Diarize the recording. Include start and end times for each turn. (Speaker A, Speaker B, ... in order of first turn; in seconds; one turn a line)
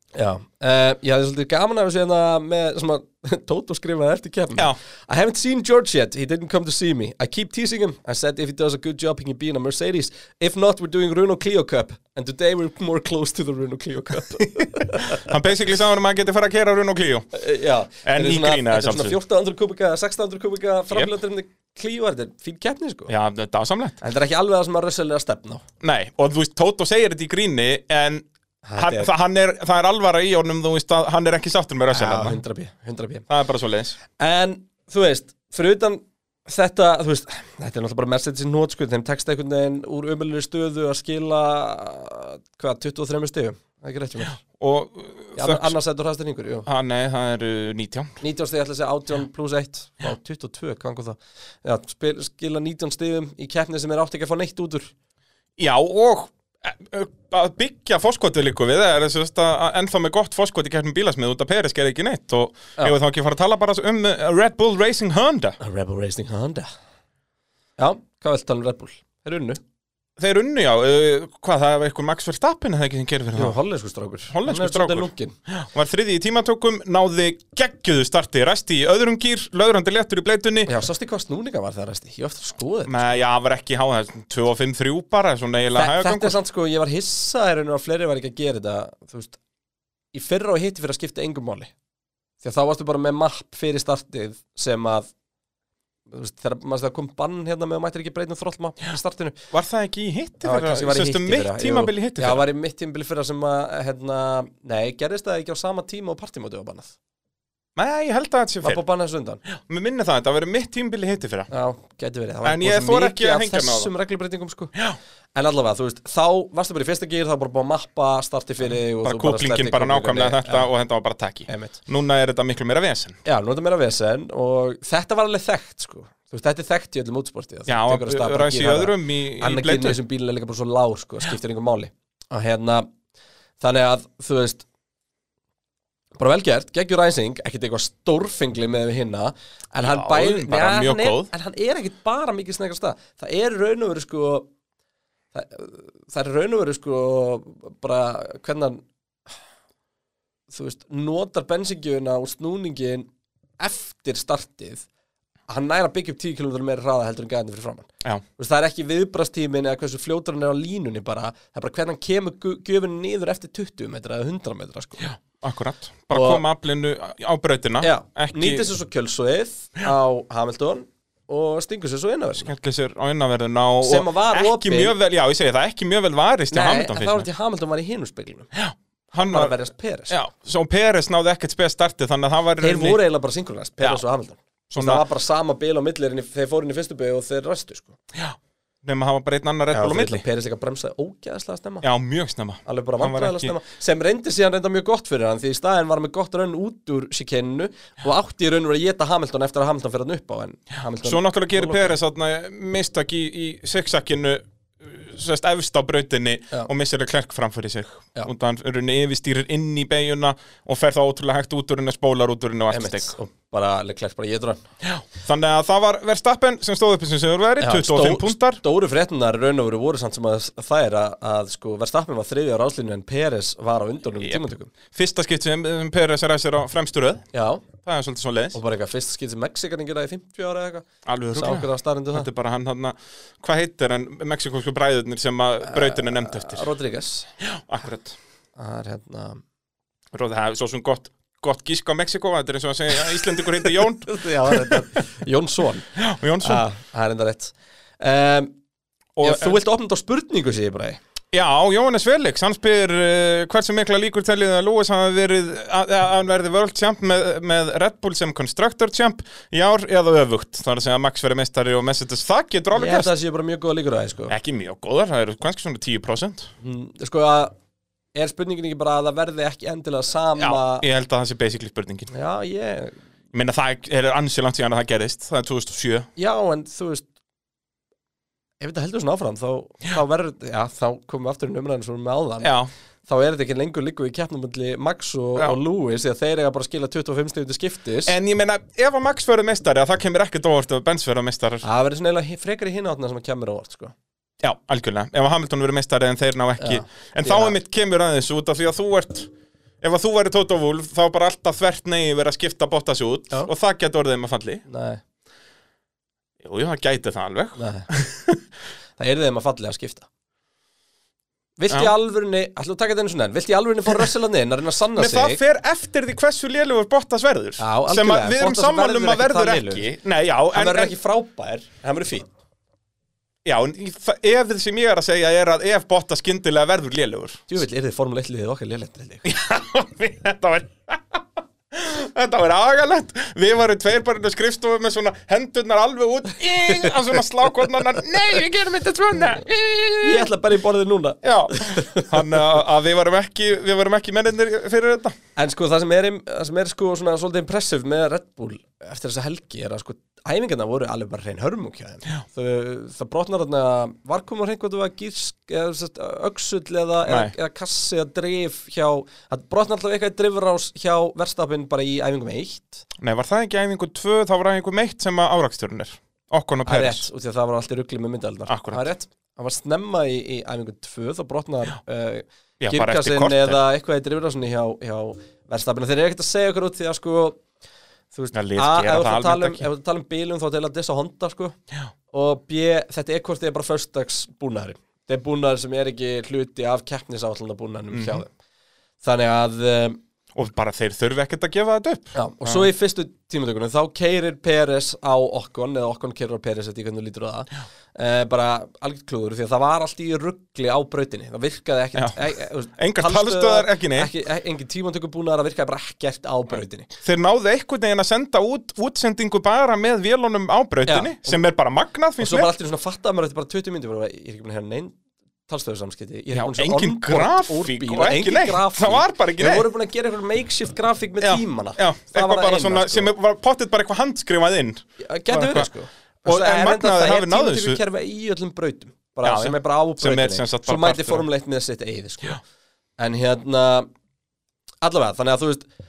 Speaker A: 0.1-15.2
Speaker B: 14.9-17.3
Speaker A: 17.3-23.1
Speaker B: 18.0-19.2
Speaker B: 23.1-24.0
Speaker A: 24.0-25.6
Speaker B: 25.8-32.4
Speaker A: 28.6-29.1
Speaker A: 31.9-33.3
Speaker B: 33.3-34.0
Speaker A: 34.2-44.4
Speaker B: 44.4-45.7
Speaker A: 45.4-46.7
Speaker B: 46.7-48.1
Speaker A: 48.2-54.9
Speaker B: 55.6-65.6
Speaker A: 65.6-66.7
Speaker A: 67.8-69.6
Speaker B: 70.2-73.6
Speaker A: 73.3-75.4
Speaker B: 74.3-80.7
Speaker A: 80.7-83.1
Speaker B: 82.9-86.4
Speaker A: 85.8-89.4
Speaker A: 90.1-91.7
Speaker A: 92.4-95.1
Speaker A: 96.1-99.4
Speaker B: 99.5-102.4
Speaker A: 100.4-106.9
Speaker B: 107.8-108.8
Speaker A: 108.6-109.4
Speaker B: 109.5-111.5
Speaker A: 111.5-114.7
Speaker B: 112.4-113.9
Speaker A: 115.3-120.7
Speaker B: 118.6-123.2
Speaker A: 121.5-121.8
Speaker A: 123.2-132.9
Speaker B: 127.7-130.0
Speaker A: 133.6-134.7
Speaker A: 136.2-144.5
Speaker B: 139.8-141.3
Speaker A: 145.3-148.8
Speaker A: 150.5-153.1
Speaker A: 153.6-154.9
Speaker A: 155.5-165.1
Speaker B: 165.0-168.7
Speaker A: 166.1-166.4
Speaker A: 167.8-172.5
Speaker B: 172.4-177.3
Speaker A: 173.8-174.9
Speaker A: 176.5-178.5
Speaker B: 178.5-179.6
Speaker A: 179.1-180.2
Speaker B: 180.1-183.0
Speaker A: 182.6-188.0
Speaker B: 184.7-185.0
Speaker B: 188.1-190.2
Speaker A: 189.7-191.9
Speaker B: 191.8-193.6
Speaker A: 192.7-201.9
Speaker B: 201.0-213.1
Speaker A: 212.7-214.6
Speaker B: 214.8-218.6
Speaker A: 217.6-224.7
Speaker B: 224.2-227.3
Speaker A: 227.3-227.7
Speaker B: 227.8-228.6
Speaker A: 228.5-232.3
Speaker B: 231.1-236.7
Speaker A: 235.7-237.3
Speaker B: 237.4-238.2
Speaker A: 238.6-239.4
Speaker B: 240.1-244.9
Speaker A: 244.1-245.9
Speaker B: 246.0-246.7
Speaker A: 246.4-248.5
Speaker B: 249.2-249.6
Speaker A: 249.2-251.0
Speaker B: 251.3-263.1
Speaker A: 262.7-264.3
Speaker B: 264.3-266.5
Speaker A: 266.6-267.6
Speaker A: 268.1-270.9
Speaker B: 270.4-272.1
Speaker A: 272.1-273.0
Speaker B: 273.3-276.1
Speaker A: 276.2-277.1
Speaker A: 278.6-282.5
Speaker B: 282.4-282.7
Speaker A: 283.1-288.1
Speaker B: 288.1-291.6
Speaker A: 291.6-293.9
Speaker B: 294.4-299.3
Speaker A: 296.6-297.6
Speaker B: 299.8-304.6
Speaker A: 304.7-305.0
Speaker B: 306.4-308.4
Speaker A: 307.6-307.9
Speaker A: 309.0-310.1
Speaker A: 311.6-315.4
Speaker B: 315.0-320.9
Speaker A: 317.6-319.9
Speaker A: 320.5-322.3
Speaker B: 323.4-327.5
Speaker A: 327.5-329.2
Speaker B: 329.2-340.3
Speaker A: 340.0-342.2
Speaker B: 341.2-345.2
Speaker A: 345.4-362.9
Speaker B: 357.1-357.3
Speaker B: 363.0-367.1
Speaker A: 366.7-377.4
Speaker B: 368.5-368.9
Speaker B: 372.6-373.6
Speaker A: 378.1-381.6
Speaker B: 378.3-379.6
Speaker A: 382.1-388.3
Speaker B: 387.9-388.2
Speaker A: 389.0-390.0
Speaker B: 390.4-392.7
Speaker A: 392.1-406.9
Speaker B: 402.8-404.1
Speaker B: 407.0-412.5
Speaker A: 410.9-411.4
Speaker A: 412.2-414.9
Speaker A: 415.5-423.1
Speaker B: 416.3-419.7
Speaker B: 421.2-425.7
Speaker A: 425.0-432.4
Speaker B: 426.2-427.8
Speaker B: 429.2-431.2
Speaker A: 433.0-433.9
Speaker A: 434.8-435.7